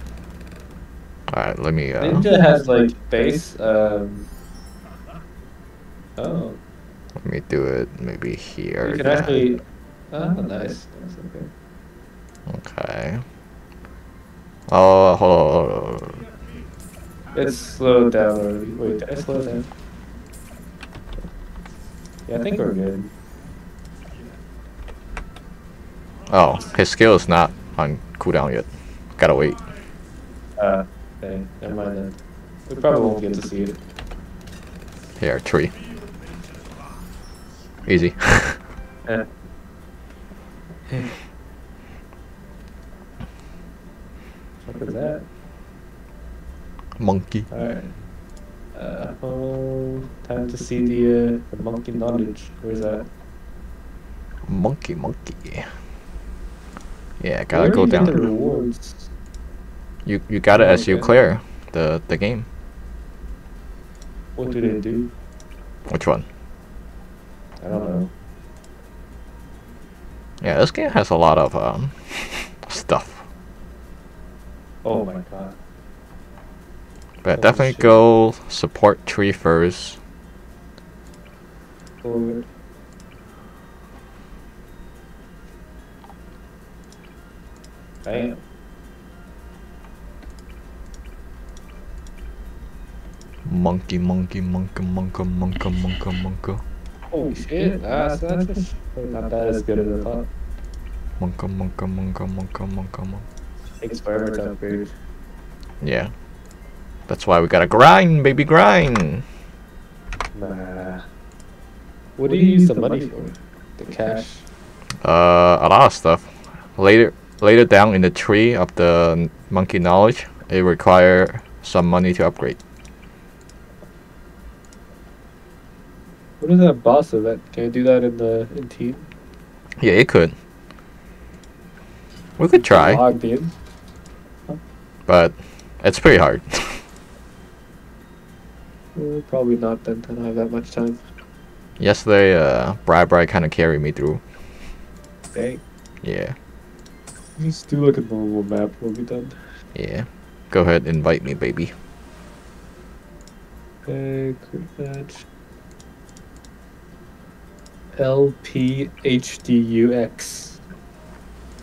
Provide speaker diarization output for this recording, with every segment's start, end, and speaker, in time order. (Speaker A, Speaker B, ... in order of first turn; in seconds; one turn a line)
Speaker A: 1.3-2.3
Speaker B: 2.0-4.3
Speaker B: 6.2-6.6
Speaker A: 7.2-9.5
Speaker B: 8.8-11.5
Speaker A: 12.5-13.2
Speaker A: 14.7-16.2
Speaker B: 17.3-19.7
Speaker B: 22.3-23.1
Speaker A: 26.3-29.6
Speaker B: 30.6-32.2
Speaker B: 32.7-33.8
Speaker A: 35.2-35.7
Speaker A: 37.9-38.6
Speaker B: 44.6-45.2
Speaker A: 47.0-47.5
Speaker B: 47.5-48.0
Speaker B: 48.7-53.1
Speaker A: 54.5-55.7
Speaker A: 57.2-58.2
Speaker B: 57.5-59.1
Speaker A: 60.0-62.5
Speaker B: 60.5-61.1
Speaker B: 64.3-65.1
Speaker A: 65.9-66.2
Speaker B: 67.6-68.1
Speaker A: 70.4-73.2
Speaker B: 74.8-75.6
Speaker A: 77.2-80.0
Speaker B: 77.3-78.0
Speaker B: 82.0-82.5
Speaker B: 88.0-88.4
Speaker A: 93.5-96.6
Speaker B: 97.1-100.3
Speaker A: 101.2-103.2
Speaker B: 103.8-104.9
Speaker A: 105.8-106.1
Speaker A: 107.1-109.2
Speaker B: 110.3-111.0
Speaker B: 112.2-114.5
Speaker A: 115.0-122.6
Speaker B: 126.4-129.1
Speaker A: 129.8-130.3
Speaker A: 132.4-133.0
Speaker B: 132.6-133.5
Speaker A: 135.1-136.8
Speaker B: 138.9-141.0
Speaker A: 141.8-144.2
Speaker B: 145.3-145.6
Speaker A: 146.0-146.3
Speaker B: 147.4-149.4
Speaker A: 149.7-151.7
Speaker B: 153.8-155.2
Speaker B: 157.9-160.6